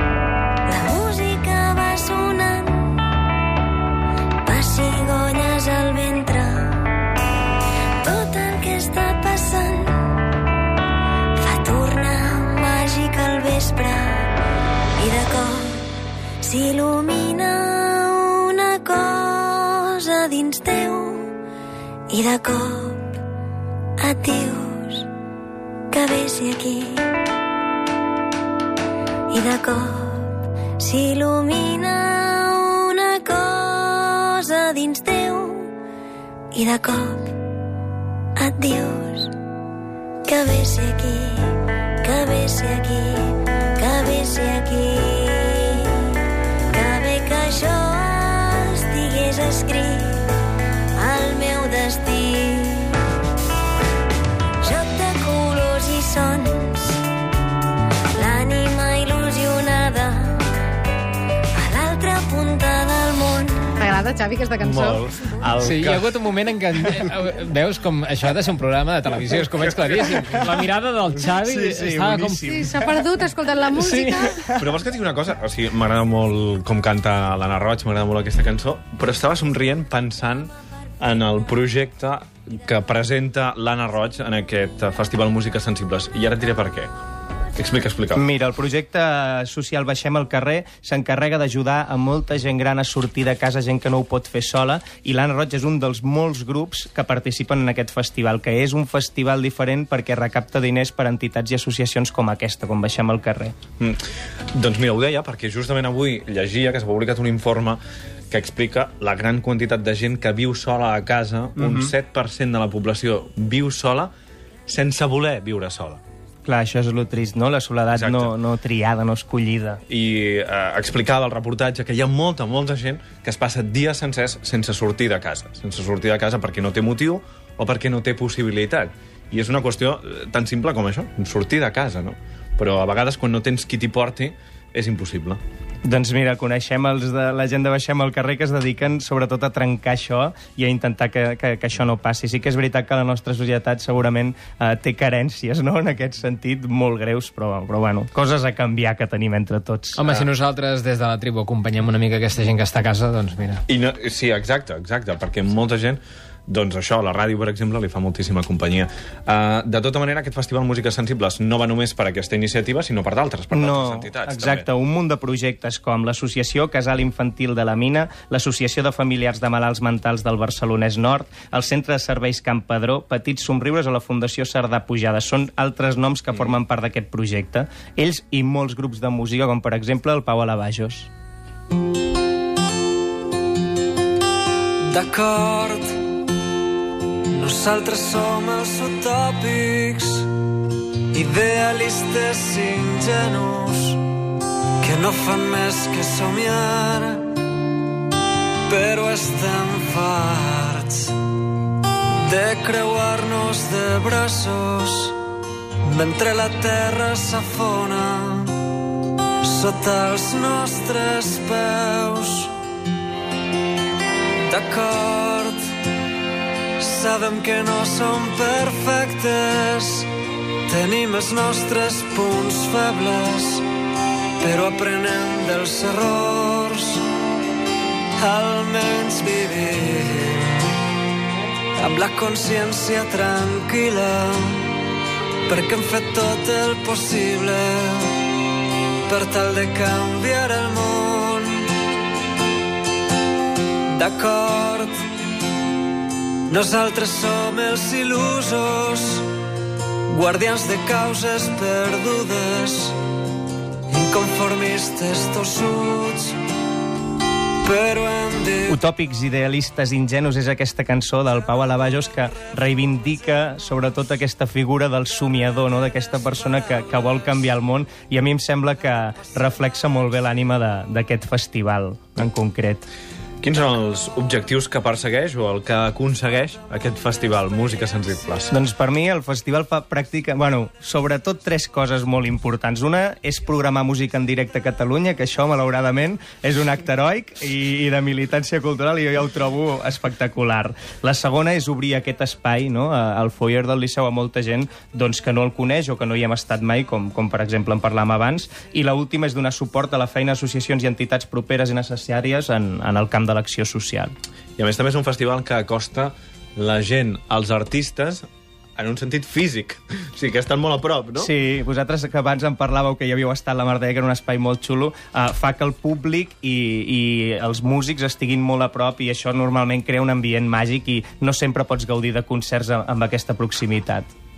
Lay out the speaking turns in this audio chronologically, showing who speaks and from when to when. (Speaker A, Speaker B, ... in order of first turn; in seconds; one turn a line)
Speaker A: 0.7-3.0
Speaker A: 4.5-6.8
Speaker A: 8.0-10.0
Speaker A: 11.4-14.2
Speaker A: 15.0-15.8
Speaker A: 16.4-21.3
Speaker A: 22.1-23.0
Speaker A: 24.0-25.1
Speaker A: 25.9-27.1
Speaker A: 29.3-30.3
Speaker A: 30.8-35.7
Speaker A: 36.5-37.3
Speaker A: 38.4-39.3
Speaker A: 40.3-46.1
Speaker A: 46.7-50.2
Speaker A: 51.0-53.0
Speaker A: 54.6-57.0
Speaker A: 58.1-60.4
Speaker A: 61.6-63.7
Speaker B: 63.8-65.0
Speaker C: 64.6-66.2
Speaker D: 65.6-72.7
Speaker C: 66.8-67.1
Speaker C: 69.5-70.5
Speaker E: 71.3-72.9
Speaker B: 72.5-74.5
Speaker D: 73.8-74.4
Speaker C: 74.6-86.9
Speaker C: 87.6-88.2
Speaker E: 88.2-103.5
Speaker C: 104.5-114.1
Speaker E: 111.6-111.9
Speaker C: 114.7-116.0
Speaker E: 116.5-119.8
Speaker C: 118.0-118.3
Speaker C: 119.9-135.4
Speaker E: 135.8-150.0
Speaker D: 149.9-153.6
Speaker C: 153.7-164.7
Speaker E: 163.5-181.1
Speaker F: 184.9-186.0
Speaker F: 187.3-190.3
Speaker F: 191.1-194.1
Speaker F: 194.8-197.3
Speaker F: 198.7-201.2
Speaker F: 202.2-205.2
Speaker F: 205.8-208.6
Speaker F: 209.4-212.5
Speaker F: 214.5-215.7
Speaker F: 216.8-220.1
Speaker F: 220.7-223.7
Speaker F: 224.4-227.1
Speaker F: 228.2-230.7
Speaker F: 231.8-234.8
Speaker F: 235.5-238.2
Speaker F: 239.1-241.7
Speaker F: 243.9-245.1
Speaker F: 246.5-249.3
Speaker F: 250.1-253.0
Speaker F: 253.9-256.4
Speaker F: 257.6-258.8
Speaker E: 258.7-272.9
Speaker C: 273.4-278.5
Speaker E: 278.5-304.1
Speaker C: 304.6-308.3
Speaker C: 308.8-311.3
Speaker E: 311.2-324.1